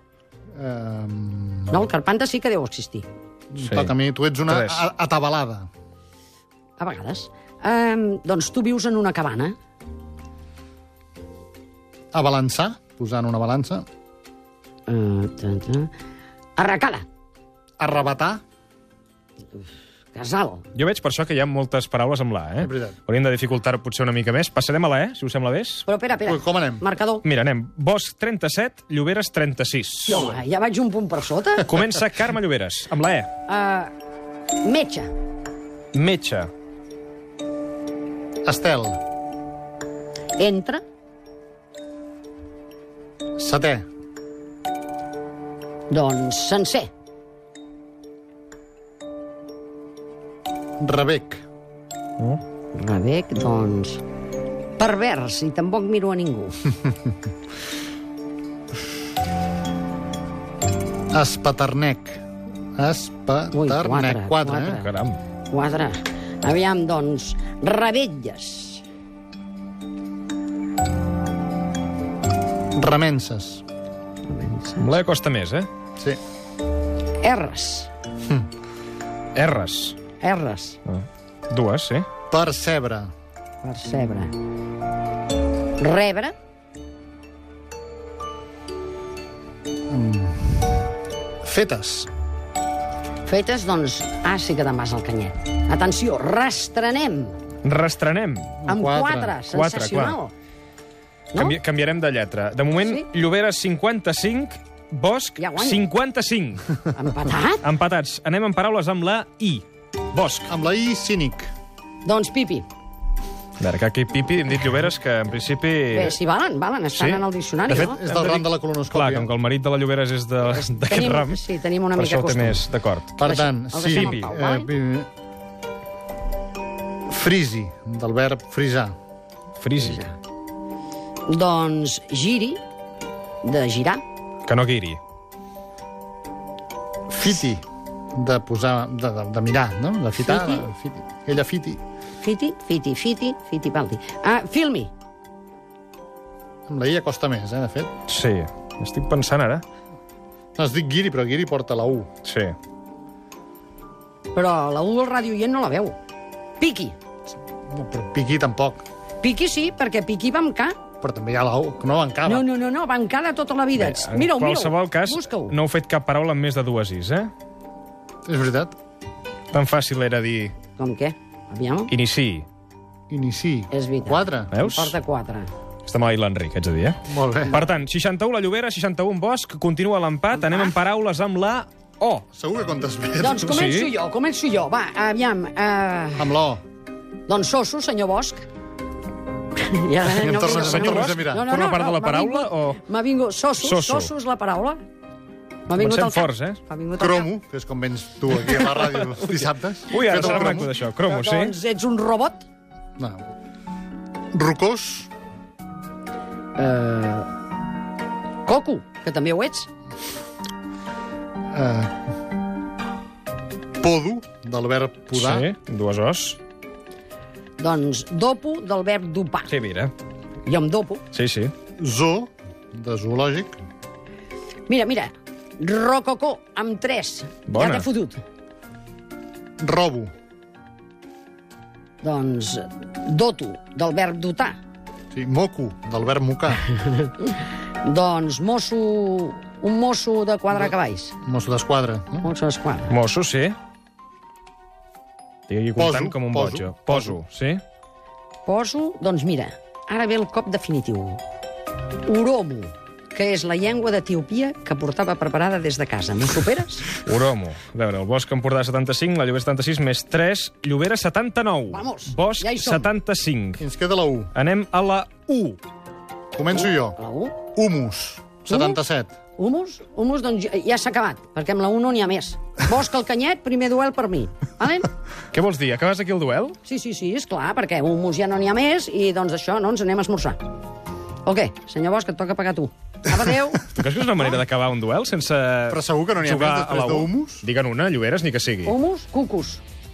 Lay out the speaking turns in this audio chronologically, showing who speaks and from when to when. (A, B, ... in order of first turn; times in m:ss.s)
0:00.6-0:01.8 A
0:01.7-0:03.1 B
0:03.5-0:05.7 A
0:03.6-0:03.9 C
0:04.5-0:04.9 C
0:06.8-0:09.6 B
0:12.1-0:13.8 A
0:14.9-0:15.9 B
0:16.6-0:17.0 B
0:17.8-0:18.4 A
0:20.1-0:20.6 B
0:20.7-0:25.8 C
0:22.6-0:23.0 A
0:25.9-0:27.2 B
0:26.2-0:26.8 A
0:27.2-0:30.4 C
0:30.1-0:31.8 B
0:31.6-0:33.3 C
0:33.5-0:33.9 B
0:34.6-0:35.1 B
0:35.9-0:36.5 C
0:38.4-0:39.0 A
0:40.4-0:40.8 B
0:43.4-0:43.9 A
0:45.9-0:46.9 B
0:50.8-0:51.4 A
0:52.7-0:54.0 B
0:54.8-0:56.6 B
1:01.1-1:02.2 A
1:02.8-1:04.8 A
1:03.5-1:04.9 B
1:04.8-1:05.2 C
1:05.5-1:08.8 B
1:12.7-1:13.6 A
1:14.2-1:15.0 B
1:14.8-1:15.7 C
1:17.2-1:17.9 B
1:19.3-1:20.0 C
1:20.2-1:20.8 B
1:20.8-1:22.0 C
1:22.3-1:23.1 A
1:23.6-1:24.3 B
1:25.8-1:26.3 B
1:29.9-1:30.7 A
1:31.4-1:32.1 A
1:33.2-1:37.4 B
1:37.6-1:38.6 C
1:38.6-1:39.4 A
1:38.7-1:40.3 B
1:39.5-1:40.2 C
1:41.3-1:46.8 C
1:42.8-1:43.0 B
1:45.4-1:45.8 B
1:46.9-1:47.6 B
1:47.6-1:50.5 C
1:50.5-1:51.5 A
1:52.0-1:52.7 B
1:53.6-1:56.2 C
1:55.9-1:58.0 B
1:56.9-2:01.4 C
1:57.7-1:59.3 A
2:00.5-2:02.6 B
2:02.0-2:03.1 C
2:03.2-2:05.1 A
2:03.2-2:04.7 B
2:03.8-2:04.2 C
2:07.1-2:08.9 A
2:09.6-2:10.0 C
2:09.8-2:10.1 B
2:11.3-2:12.6 B
2:13.4-2:14.0 B
2:14.5-2:15.0 C
2:17.1-2:17.6 A
2:18.1-2:21.8 A
2:20.2-2:20.7 B
2:22.2-2:24.9 B
2:26.7-2:27.9 A
2:28.1-2:29.6 C
2:30.6-2:32.1 A
2:32.2-2:32.5 C
2:34.3-2:36.0 B
2:36.6-2:37.0 B
2:37.7-2:38.8 A
2:39.2-2:40.7 B
2:41.0-2:42.5 A
2:42.2-2:45.5 B
2:43.7-2:47.3 C
2:48.2-2:48.8 A
2:49.5-2:50.5 C
2:50.8-2:51.9 B
2:51.9-2:52.4 C
2:53.1-2:54.5 A
2:53.7-2:55.5 B
2:54.5-2:55.0 C
2:55.8-3:02.2 C
2:57.1-2:57.6 A
3:00.3-3:00.7 B
3:02.3-3:03.5 A
3:03.2-3:06.3 B
3:03.4-3:03.9 C
3:06.2-3:06.6 A
3:07.3-3:08.4 B
3:09.6-3:14.8 B
3:10.0-3:11.5 A
3:10.3-3:12.8 C
3:13.6-3:14.1 C
3:15.7-3:17.3 B
3:15.7-3:16.6 C
3:17.0-3:20.7 A
3:18.4-3:21.5 C
3:20.4-3:22.4 B
3:24.3-3:25.1 A
3:26.6-3:27.3 B
3:28.4-3:29.7 B
3:31.5-3:31.9 A
3:33.8-3:35.5 A
3:35.1-3:36.4 C
3:37.6-3:39.5 B
3:39.5-3:39.9 C
3:40.4-3:41.0 B
3:41.1-3:41.5 C
3:41.8-3:43.6 A
3:44.7-3:48.2 B
3:47.5-3:47.8 C
3:49.6-3:50.1 A
3:52.0-3:54.6 B
3:55.1-3:56.6 A
3:56.8-4:01.2 B
4:01.2-4:02.3 A
4:02.2-4:02.9 B
4:02.9-4:03.6 C
4:05.5-4:07.6 C
4:05.8-4:07.2 A
4:08.4-4:11.2 B
4:12.0-4:16.9 B
4:17.0-4:23.6 C
4:21.7-4:22.9 B
4:23.6-4:24.3 A
4:24.3-4:25.6 C
4:26.3-4:27.0 A
4:26.5-4:27.4 B
4:27.5-4:29.1 A
4:28.4-4:28.8 B
4:29.4-4:34.9 B
4:35.3-4:36.6 C
4:36.6-4:40.4 B
4:41.2-4:43.7 B
4:43.7-4:48.7 C
4:45.7-4:47.4 A
4:48.6-4:49.6 B